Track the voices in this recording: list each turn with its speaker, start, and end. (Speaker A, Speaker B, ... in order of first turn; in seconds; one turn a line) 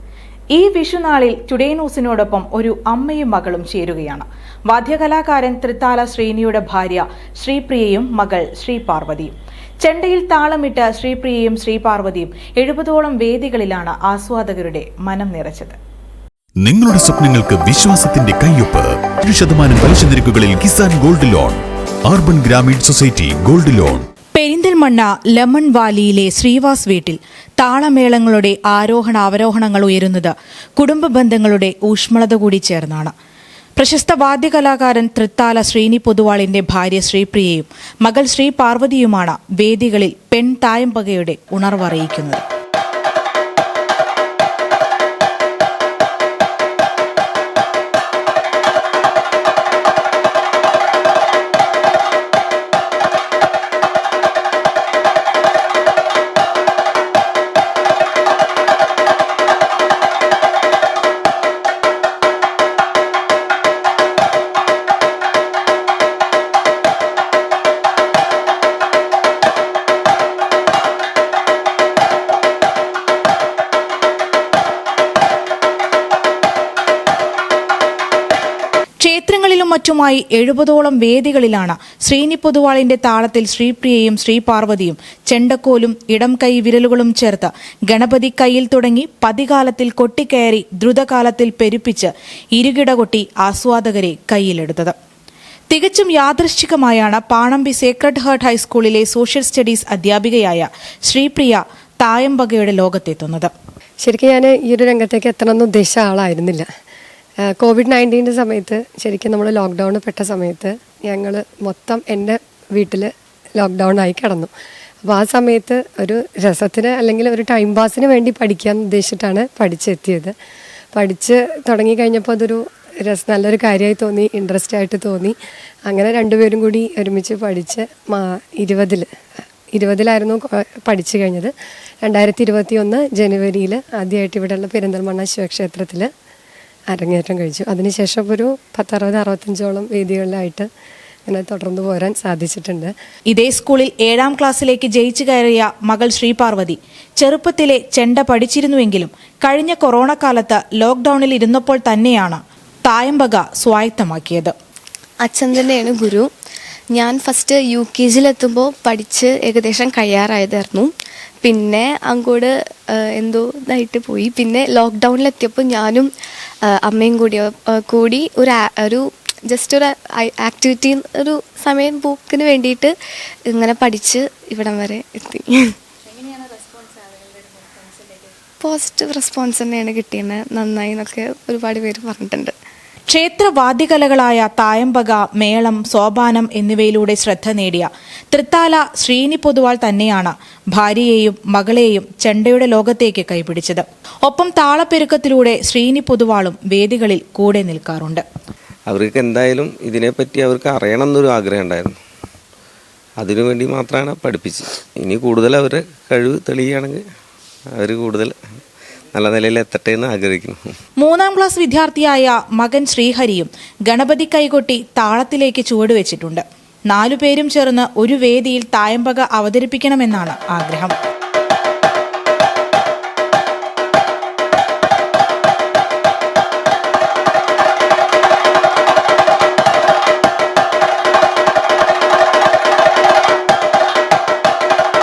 Speaker A: 0.5-15.8
Speaker B: 16.6-24.0
Speaker A: 24.4-33.1
Speaker A: 33.8-42.4
Speaker A: 79.0-95.0
Speaker A: 95.7-103.5
Speaker C: 104.0-106.7
Speaker C: 107.6-114.5
Speaker C: 115.0-120.3
Speaker C: 120.9-125.3
Speaker C: 125.9-129.1
Speaker C: 129.7-131.5
Speaker C: 132.0-136.1
Speaker C: 136.9-140.7
Speaker C: 141.3-142.9
Speaker A: 143.3-154.6
Speaker D: 155.2-156.3
Speaker D: 156.9-160.9
Speaker D: 161.4-166.1
Speaker D: 166.7-172.9
Speaker D: 173.5-175.8
Speaker D: 178.6-182.5
Speaker A: 183.1-198.2
Speaker E: 198.9-202.0
Speaker E: 203.2-207.0
Speaker E: 207.7-208.3
Speaker E: 209.1-210.8
Speaker A: 211.0-220.9